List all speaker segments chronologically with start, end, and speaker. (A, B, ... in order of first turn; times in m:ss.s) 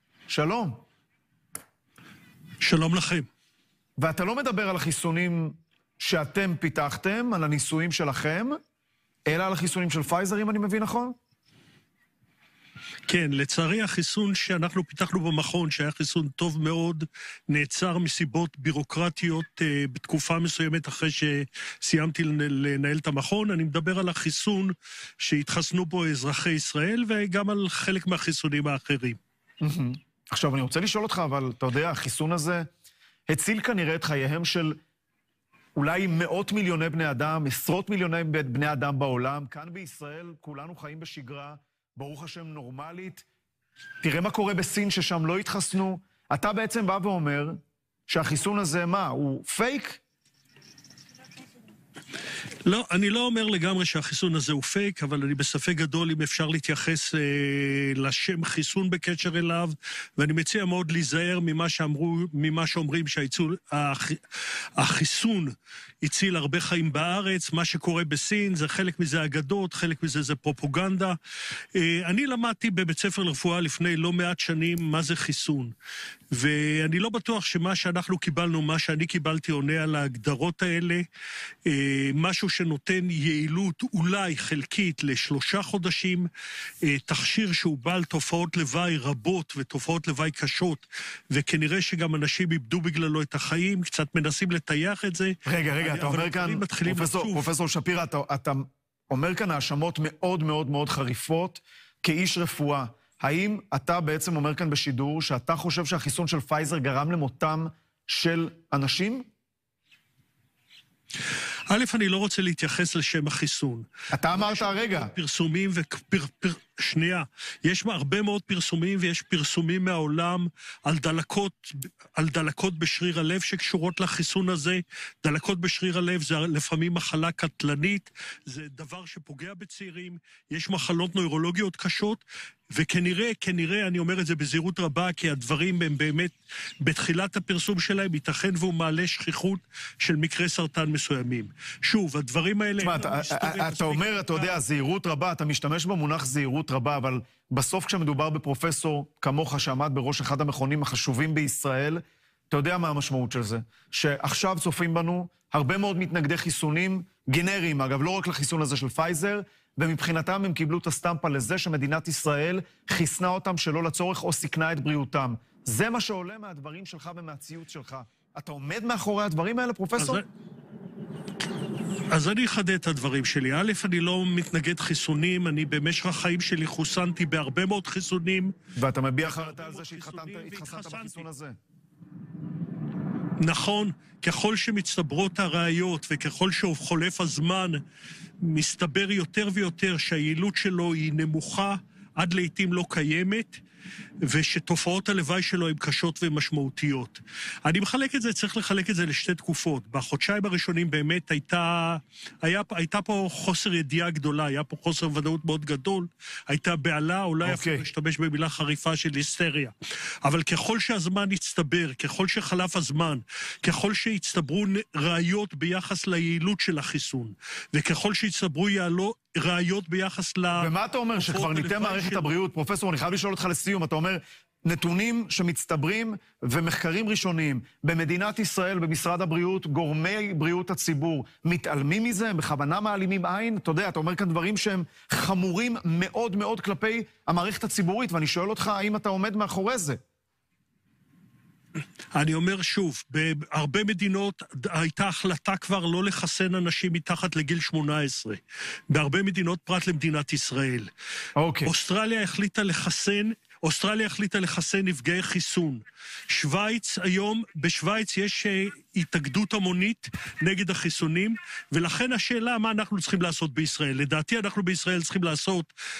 0:00.3-0:00.8 A
0:02.6-0:03.3 B
0:04.0-0:08.6 A
0:09.3-0:11.2 A
0:13.1-0:29.2 B
0:29.6-0:32.7 A
0:33.3-0:34.8 A
0:35.8-0:43.2 A
0:44.0-0:50.0 A
0:52.7-1:11.2 B
1:11.7-1:15.7 B
1:16.3-1:21.1 B
1:21.6-1:26.3 B
1:26.8-1:37.5 B
1:35.5-1:49.3 A
1:51.7-2:24.6 B
1:54.1-1:55.1 A
2:22.8-2:50.2 A
2:50.0-2:50.2 B
2:52.1-2:58.5 B
2:58.8-3:01.6 A
2:59.2-3:01.3 B
3:03.4-3:07.8 B
3:08.4-3:13.6 B
3:14.2-3:42.3 B
3:27.4-3:27.8 A
3:40.6-4:00.0 A
4:02.1-4:10.9 B
4:11.4-4:11.7 A
4:11.6-4:25.7 B